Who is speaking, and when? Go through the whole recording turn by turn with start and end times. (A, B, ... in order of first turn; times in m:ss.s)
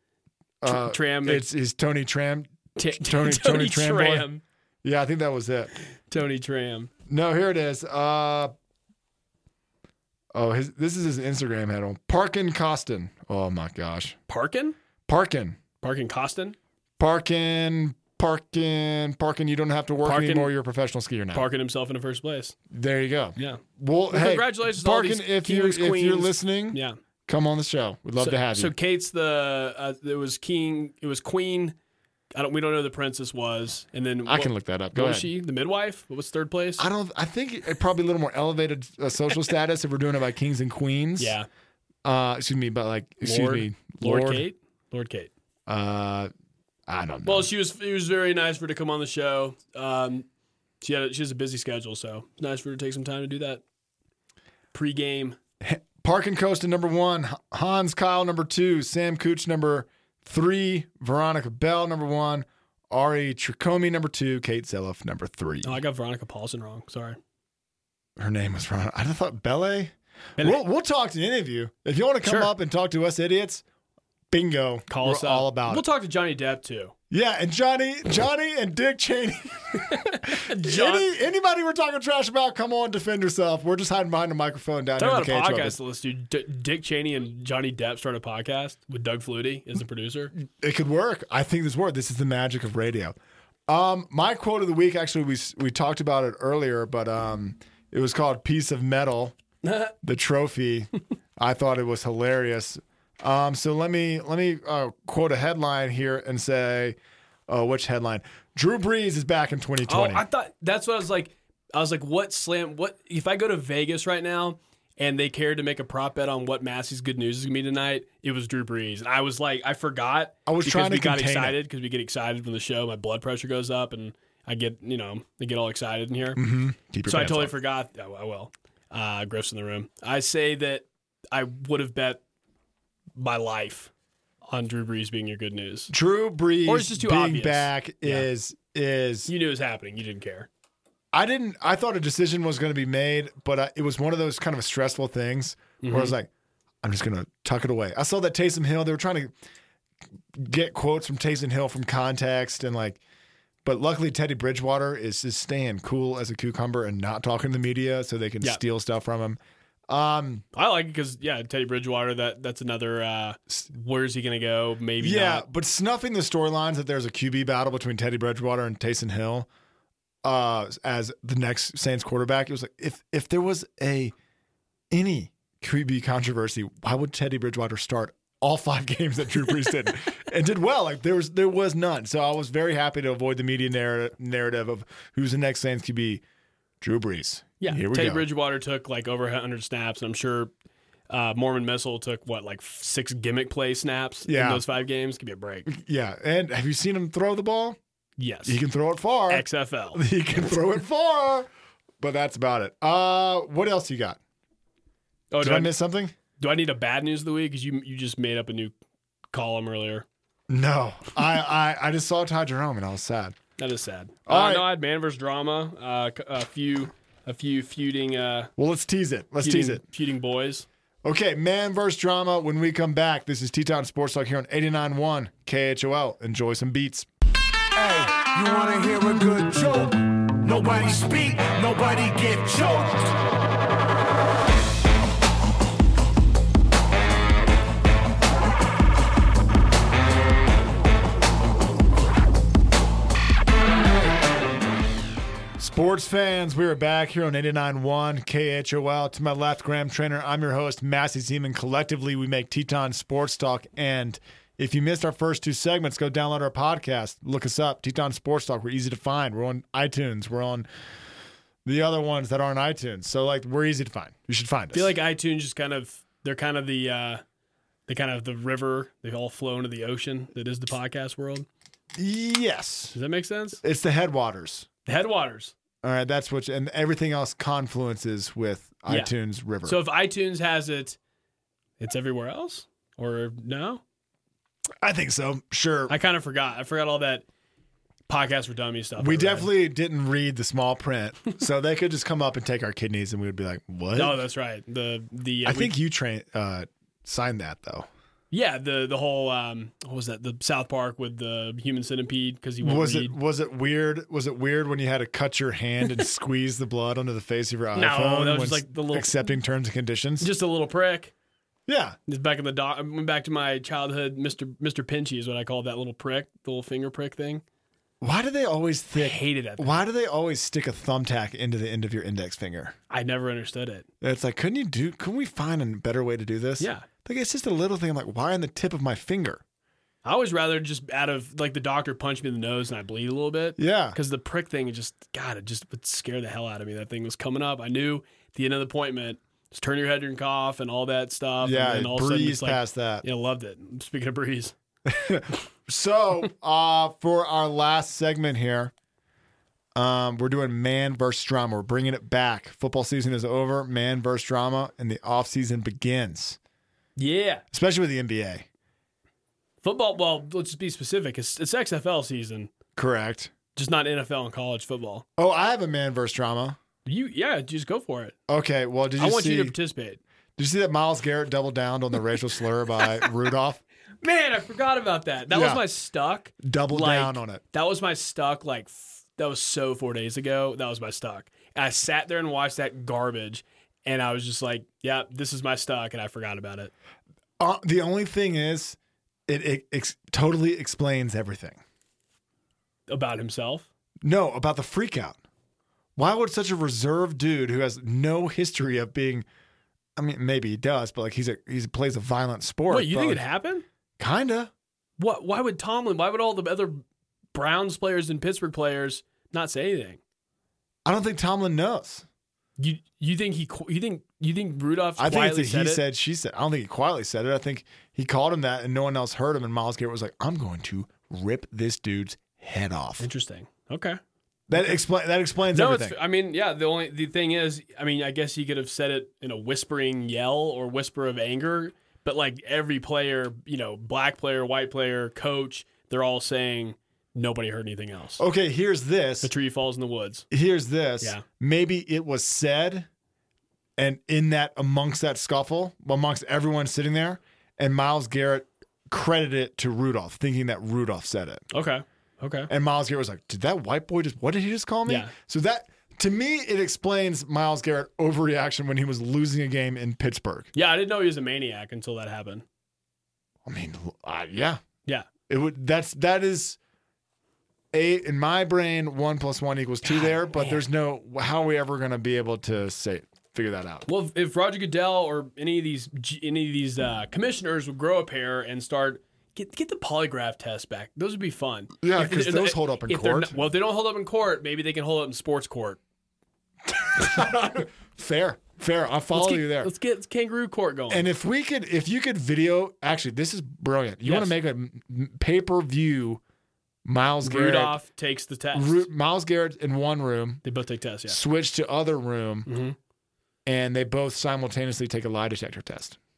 0:00.6-0:04.3 A
0:00.6-0:01.4 B
0:02.8-0:04.4 B
0:04.8-0:05.7 A
0:06.1-0:06.9 B
0:07.1-0:08.5 A
0:10.3-0:14.2 A
0:14.3-0:14.8 B
0:15.1-0:15.6 A
0:15.8-0:16.6 B
0:17.0-0:21.5 A
0:20.0-0:20.5 B
0:21.3-0:22.6 B
0:22.7-0:28.7 A
0:23.4-0:27.0 B
0:28.2-0:31.8 B
0:32.4-0:36.9 B
0:34.3-0:35.3 A
0:36.8-0:41.4 A
0:41.2-0:41.5 B
0:42.0-0:44.4 A
0:43.2-0:45.3 B
0:45.7-0:46.3 A
0:46.9-0:47.5 A
0:47.2-0:50.3 B
0:50.8-0:53.6 B
0:54.7-0:55.4 B
0:55.6-1:05.8 A
1:05.6-1:07.2 B
1:08.2-1:13.6 A
1:12.2-1:12.5 B
1:14.3-1:15.8 A
1:14.9-1:16.9 B
1:17.1-1:25.8 A
1:19.8-1:21.1 B
1:25.0-1:30.3 B
1:30.4-1:33.2 A
1:33.7-1:39.4 A
1:39.6-1:39.9 B
1:40.0-1:47.0 A
1:47.5-1:50.2 A
1:49.9-2:06.4 B
2:00.5-2:01.6 A
2:06.4-2:07.5 A
2:07.0-2:12.2 B
2:13.2-2:13.9 B
2:14.5-2:15.9 B
2:15.9-2:19.3 A
2:16.6-2:18.3 B
2:19.3-2:20.5 B
2:21.1-2:26.3 A
2:25.8-2:26.2 B
2:26.8-2:29.3 A
2:30.4-2:33.0 A
2:33.6-2:40.4 A
2:40.5-2:45.5 B
2:45.0-2:49.5 A
2:50.2-2:54.1 A
2:54.9-3:06.2 A
3:06.8-3:08.3 A
3:07.6-3:10.5 B
3:11.1-3:15.7 B
3:14.3-3:14.6 A
3:15.7-3:17.8 A
3:18.2-3:18.6 B
3:18.5-3:21.5 A
3:19.3-3:20.0 B
3:22.0-3:24.2 A
3:25.3-3:25.7 B
3:25.4-3:26.2 A
3:26.4-3:28.7 B
3:29.3-3:30.1 B
3:30.5-3:33.4 A
3:33.6-3:38.5 B
3:34.3-3:34.7 A
3:38.6-3:39.8 A
3:39.4-3:40.7 B
3:41.0-3:47.1 A
3:47.8-3:53.2 C
4:05.6-4:20.7 A
4:21.6-4:24.9 A
4:24.7-4:27.2 B
4:27.9-4:31.5 B
4:32.0-4:33.0 A
4:32.9-4:33.6 B
4:33.6-4:34.7 A
4:34.8-4:35.6 B
4:35.8-4:39.8 A
4:38.9-4:39.1 B
4:39.6-4:41.0 B
4:41.8-4:43.8 B
4:44.8-4:46.0 A
4:45.9-4:47.2 B
4:48.1-4:49.5 B
4:49.0-4:54.2 A
4:54.0-4:55.7 B
4:55.4-4:57.9 A
4:58.3-5:03.2 B
5:02.6-5:10.3 A
5:07.8-5:09.1 B
5:10.2-5:11.1 B
5:11.7-5:12.0 A
5:12.1-5:17.4 B
5:18.0-5:22.8 A
5:19.0-5:19.8 B
5:22.9-5:23.9 B
5:24.0-5:29.4 A
5:26.6-5:26.9 B
5:30.0-5:44.6 B
5:33.6-5:34.0 A
5:41.4-5:43.0 A
5:44.9-5:48.7 A
5:49.8-5:56.4 A
5:57.0-5:57.4 B
5:57.5-5:58.5 A
5:59.6-6:02.5 B
6:02.8-6:03.3 A
6:03.6-6:05.0 B
6:05.2-6:06.6 A
6:06.8-6:08.2 B
6:08.3-6:09.6 A
6:09.0-6:10.0 B
6:10.4-6:13.6 A
6:14.0-6:26.7 B
6:15.3-6:15.6 A
6:16.4-6:17.4 A
6:27.4-6:31.6 A
6:32.9-6:33.7 B
6:34.0-6:35.2 A
6:36.0-6:39.3 A
6:40.0-6:43.2 A
6:42.7-6:43.6 B
6:44.0-6:44.5 A
6:45.0-6:46.8 B
6:47.3-6:50.0 B
6:50.8-6:52.1 A
6:52.6-6:55.8 B
6:55.0-7:03.1 A
7:03.0-7:04.0 B
7:04.5-7:06.0 A
7:05.5-7:18.2 B
7:18.2-7:19.3 A
7:19.2-7:20.3 B
7:20.3-7:22.9 A
7:23.8-7:31.5 A
7:31.5-7:32.5 B
7:32.5-7:40.5 A
7:34.9-7:35.1 B
7:40.5-7:42.4 B
7:43.4-7:44.6 A
7:45.3-7:46.6 A
7:47.7-7:53.9 A
7:49.8-7:50.6 B
7:53.9-8:05.8 B
8:01.8-8:03.4 A
8:06.7-8:09.7 A
8:09.1-8:11.1 B
8:10.9-8:16.2 A
8:14.0-8:14.3 B
8:16.8-8:17.8 A
8:17.2-8:18.9 B
8:18.5-8:20.4 A
8:20.4-8:21.2 B
8:21.1-8:22.5 A
8:22.5-8:22.8 B
8:23.5-8:26.0 A